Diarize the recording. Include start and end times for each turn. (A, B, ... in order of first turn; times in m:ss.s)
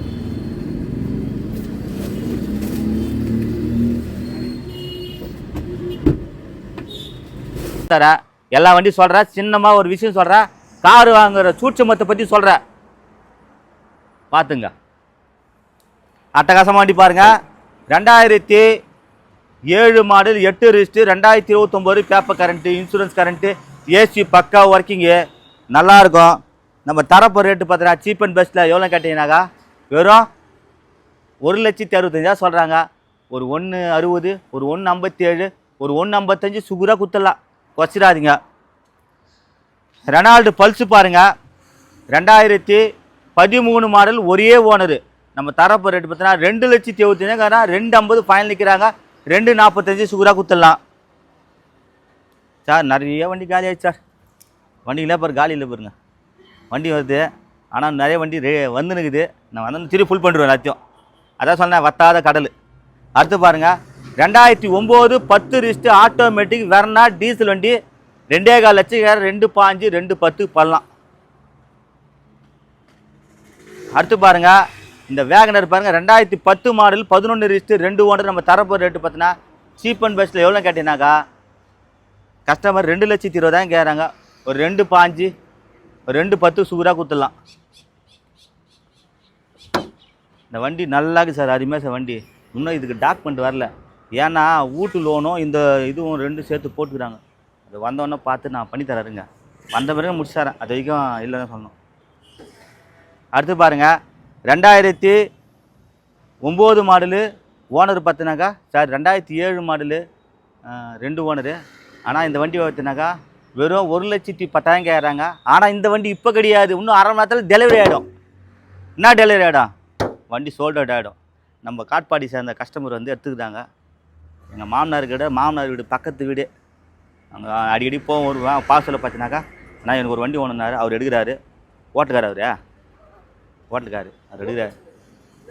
0:07.8-0:12.6 A
0:14.3-0:14.7 A
0:16.4-0:17.3 A
0:17.9-0:18.7 A
0:19.7-0:25.2 A
0:25.7-0:30.2 A
0:31.4-0:38.4 A
0:40.1-0:41.2 A
0:42.1-0:42.8 A
0:43.4-0:50.8 A
0:52.6-0:54.0 A
0:54.8-0:55.9 A
0:56.7-1:00.8 A
1:01.4-1:02.5 A
1:03.2-1:07.8 A
1:08.3-1:10.8 A
1:13.9-1:14.6 A
1:15.1-1:21.1 A
1:22.5-1:25.3 A
1:26.1-1:27.3 A
1:30.5-1:41.7 A
1:43.3-1:43.9 A
1:44.5-1:45.2 A
1:46.4-1:47.2 A
1:47.7-1:50.0 A
1:50.6-1:58.0 A
1:59.0-1:59.7 A
2:00.3-2:03.6 A
2:04.5-2:06.5 A
2:07.3-2:11.4 A
2:11.9-2:12.5 A
2:13.7-2:14.7 A